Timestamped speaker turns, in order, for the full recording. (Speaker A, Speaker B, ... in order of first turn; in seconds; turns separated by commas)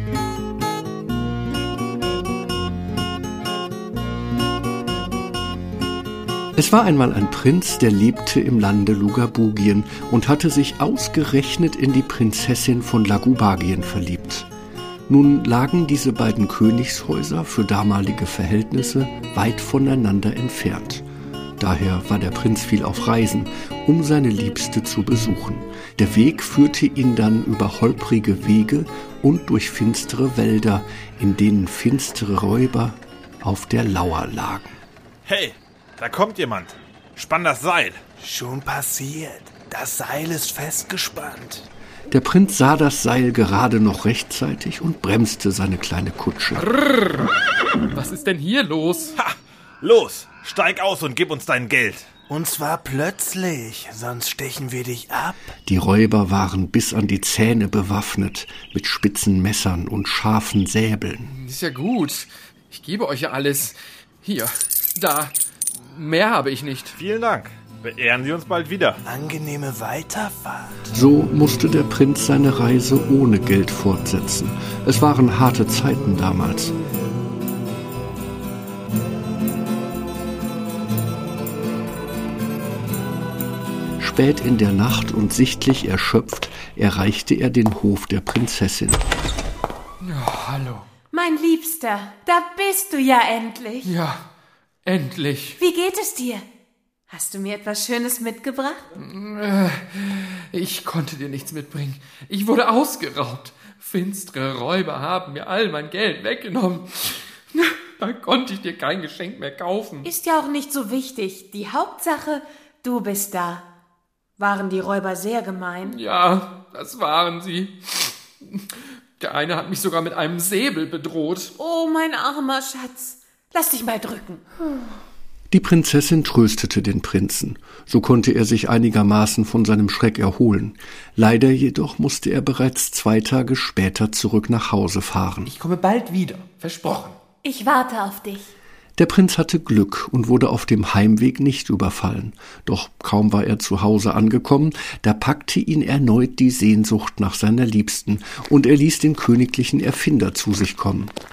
Speaker A: 6.5-14.5, Speaker A: 15.1-21.1, Speaker A: 21.6-34.8, Speaker B: 35.2-38.0, Speaker C: 38.2-41.7, Speaker A: 42.1-46.6, Speaker D: 46.6-47.4, Speaker D: 47.9-49.1, Speaker B: 49.1-52.1, Speaker C: 52.3-55.5, Speaker A: 55.6-61.3, Speaker D: 61.3-67.0, Speaker B: 67.0-69.0, Speaker C: 69.0-70.8, Speaker A: 70.9-76.7, Speaker A: 84.0-89.0, Speaker D: 90.0-90.9, Speaker E: 91.1-93.9, Speaker D: 93.8-94.3, Speaker D: 94.8-95.6, Speaker E: 95.6-96.4, Speaker E: 97.1-98.9, Speaker D: 99.0-110.1, Speaker E: 110.0-113.7, Speaker E: 114.4-116.0, Speaker D: 115.8-121.5, Speaker E: 121.5-124.4, Speaker A: 125.5-135.5, Speaker D: 135.4-137.2, Speaker E: 137.4-138.5, Speaker A: 139.0-151.1